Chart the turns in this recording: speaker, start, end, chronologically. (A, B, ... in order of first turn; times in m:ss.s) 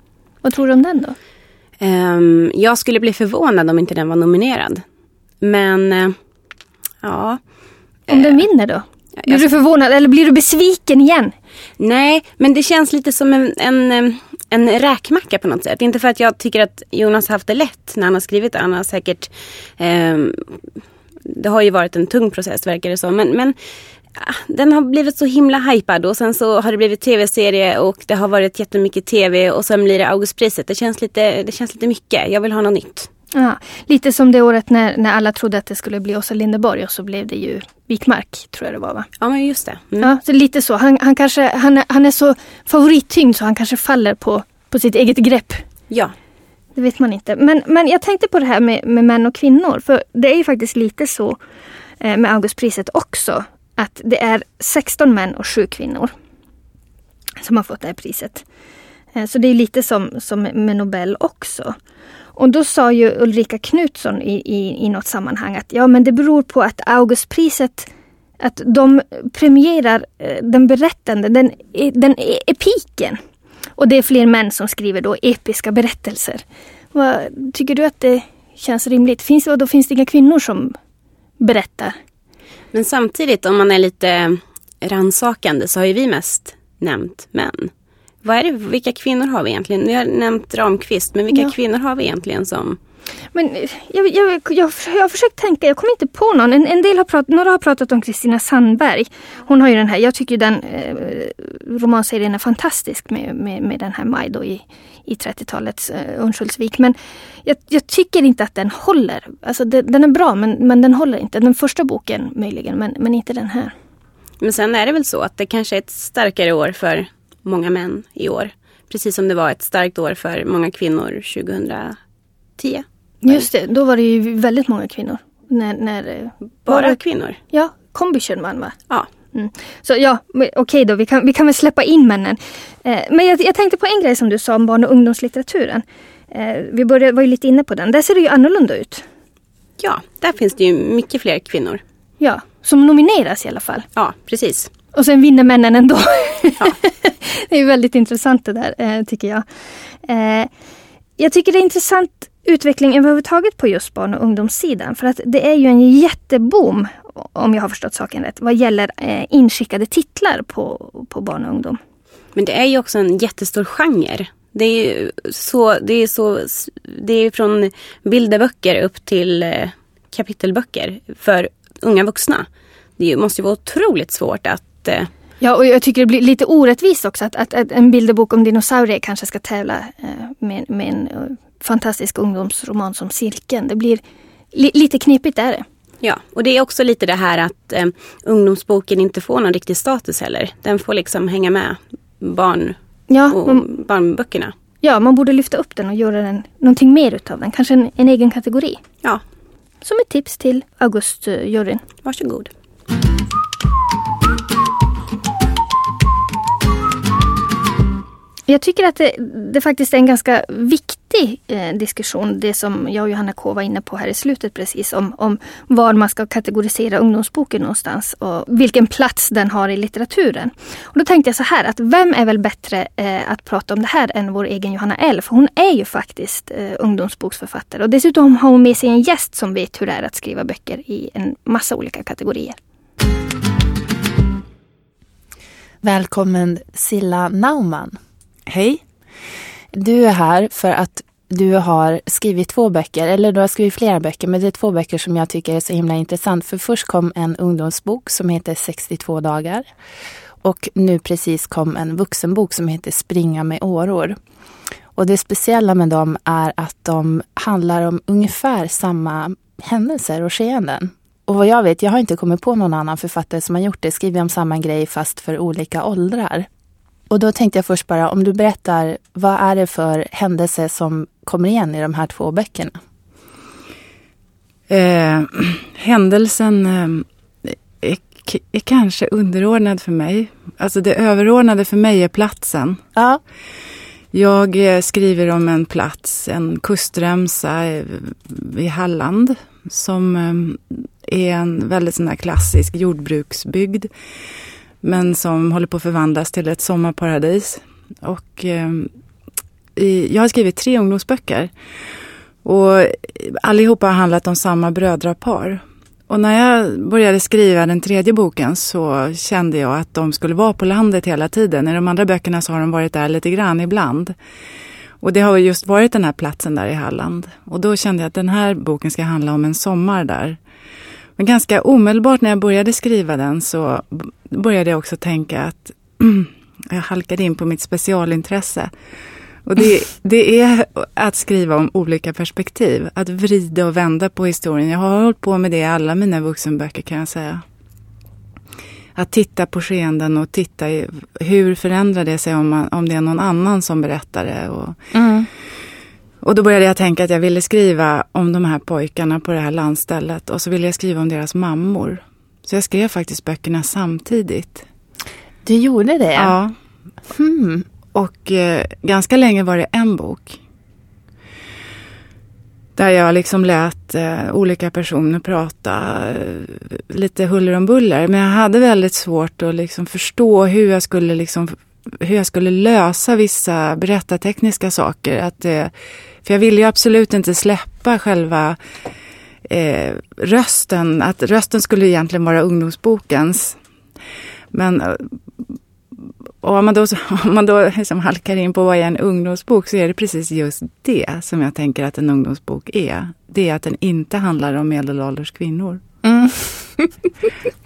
0:00.4-0:01.2 A
0:01.8-0:04.8 B
0:05.4-0:06.2 B
0:07.0-0:07.4 B
0:08.1-0:08.4 B
0:08.1-0:11.3 A
0:09.2-0:09.4 B
0:11.8-0:20.6 B
0:21.2-0:23.5 B
0:24.1-0:33.1 B
0:33.3-0:39.1 A
0:39.2-0:40.1 B
0:40.0-0:45.6 A
0:45.9-0:46.1 B
0:46.7-0:51.4 A
0:52.0-0:56.1 A
0:57.4-0:58.4 A
0:59.1-1:01.7 A
1:02.4-1:07.9 A
1:08.4-1:13.2 A
1:13.8-1:16.4 A
1:16.9-1:20.8 A
1:21.4-1:22.0 A
1:22.7-1:27.7 B
1:28.2-1:32.8 B
1:33.3-1:53.7 A
1:54.4-2:02.0 B
2:02.6-2:03.5 B
2:03.2-2:07.0 A
2:06.6-2:07.4 B
2:07.5-2:08.8 A
2:09.3-2:19.0 A
2:19.8-2:21.8 B
2:22.2-2:23.8 A
2:24.0-2:24.7 B
2:24.9-2:29.4 A
2:30.0-2:30.5 A
2:31.2-2:41.8 A
2:42.3-2:52.5 B
2:53.0-2:55.1 B
2:55.4-3:04.0 A
3:04.5-3:05.6 A
3:06.0-3:12.8 B
3:13.1-3:13.7 A
3:13.3-3:14.5 B
3:14.8-3:18.8 A
3:19.8-3:21.8 A
3:22.0-3:22.5 B
3:28.5-3:52.6 A
3:55.8-3:58.0 C
3:58.5-3:58.8 D
3:59.7-4:09.7 C
4:10.4-4:14.2 C
4:14.9-4:26.5 C
4:27.1-4:32.8 C
4:34.7-4:42.8 D
4:44.1-4:53.9 D
4:54.8-4:58.9 D
4:59.8-5:01.5 D
5:02.4-5:14.1 D
5:15.0-5:20.4 D
5:21.2-5:28.7 D
5:29.4-5:37.4 D
5:38.9-5:44.8 D
5:44.9-5:45.3 C
5:46.2-5:54.6 D
5:55.4-5:56.3 C
5:56.1-5:56.5 D
5:57.1-5:57.6 C
5:57.9-6:00.4 D
6:02.8-6:15.7 D
6:16.2-6:18.6 D
6:19.5-6:23.6 D
6:24.5-6:25.1 D
6:26.4-6:35.8 D
6:36.0-6:36.9 C